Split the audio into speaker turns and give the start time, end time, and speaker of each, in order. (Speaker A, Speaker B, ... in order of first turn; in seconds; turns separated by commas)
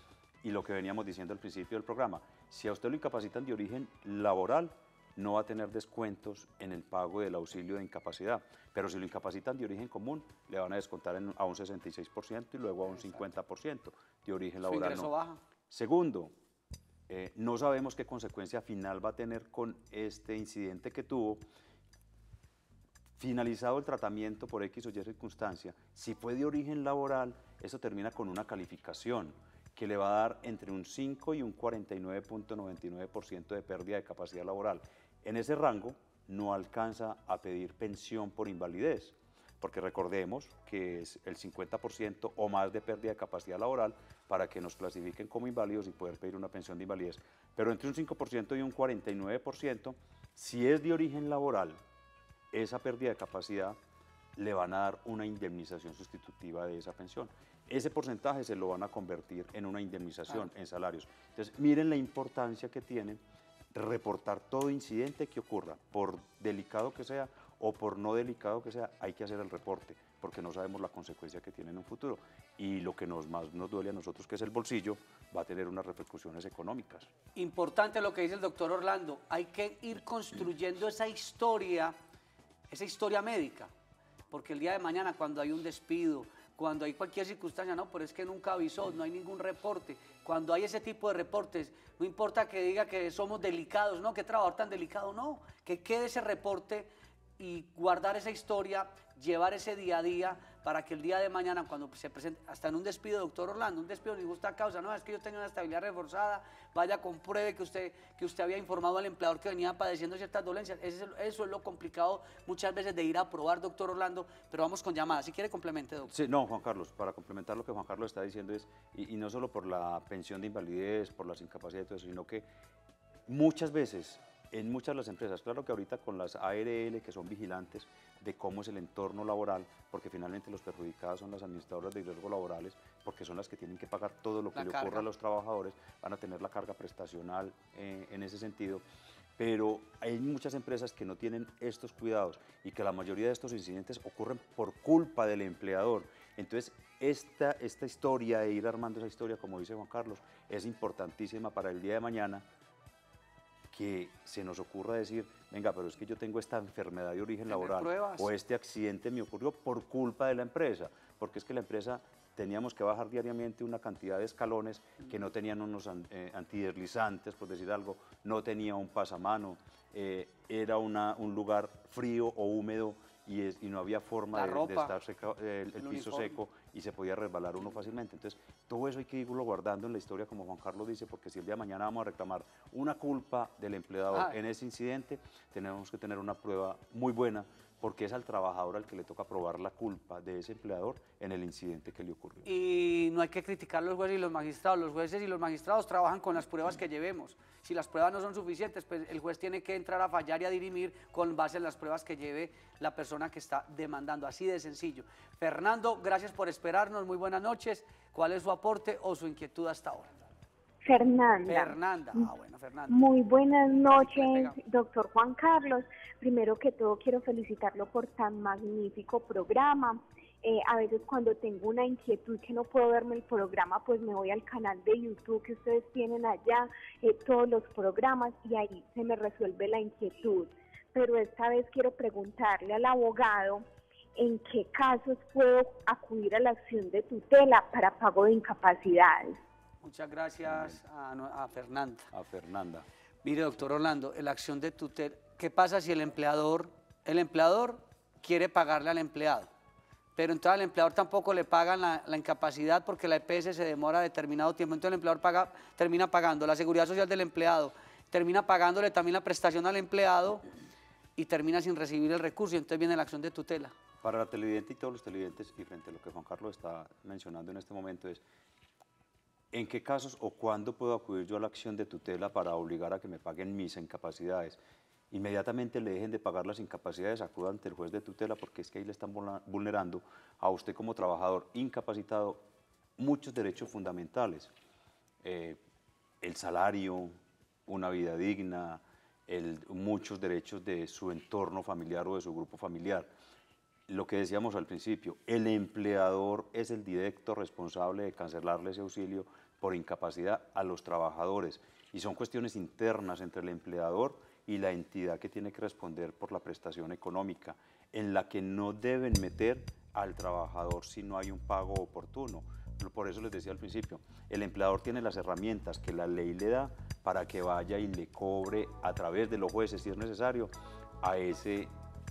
Speaker A: 0.4-15.1, Speaker B: 14.6-15.4, Speaker A: 15.7-16.3, Speaker A: 17.1-21.5, Speaker A: 23.2-51.8, Speaker A: 52.5-53.8, Speaker A: 54.4-63.2, Speaker A: 63.7-77.1, Speaker B: 77.3-82.0, Speaker B: 82.7-83.7, Speaker B: 84.3-116.1, Speaker A: 116.1-122.5, Speaker A: 123.3-138.8, Speaker B: 134.6-135.1, Speaker A: 139.4-152.4, Speaker A: 153.7-192.5, Speaker B: 157.5-158.3, Speaker B: 174.3-174.9, Speaker B: 175.8-176.4, Speaker B: 184.1-184.4, Speaker B: 192.4-210.1, Speaker C: 210.8-212.2, Speaker B: 211.5-213.0, Speaker C: 212.9-233.6, Speaker B: 213.9-214.6, Speaker C: 234.2-239.4, Speaker B: 239.8-242.1, Speaker A: 240.5-240.8, Speaker A: 242.1-242.9, Speaker B: 243.2-249.5, Speaker B: 250.2-260.5, Speaker B: 261.1-263.7, Speaker A: 264.0-268.2, Speaker A: 269.5-274.6, Speaker A: 275.1-282.4, Speaker A: 283.0-284.5, Speaker A: 285.2-285.6, Speaker A: 286.2-293.1, Speaker A: 293.9-321.7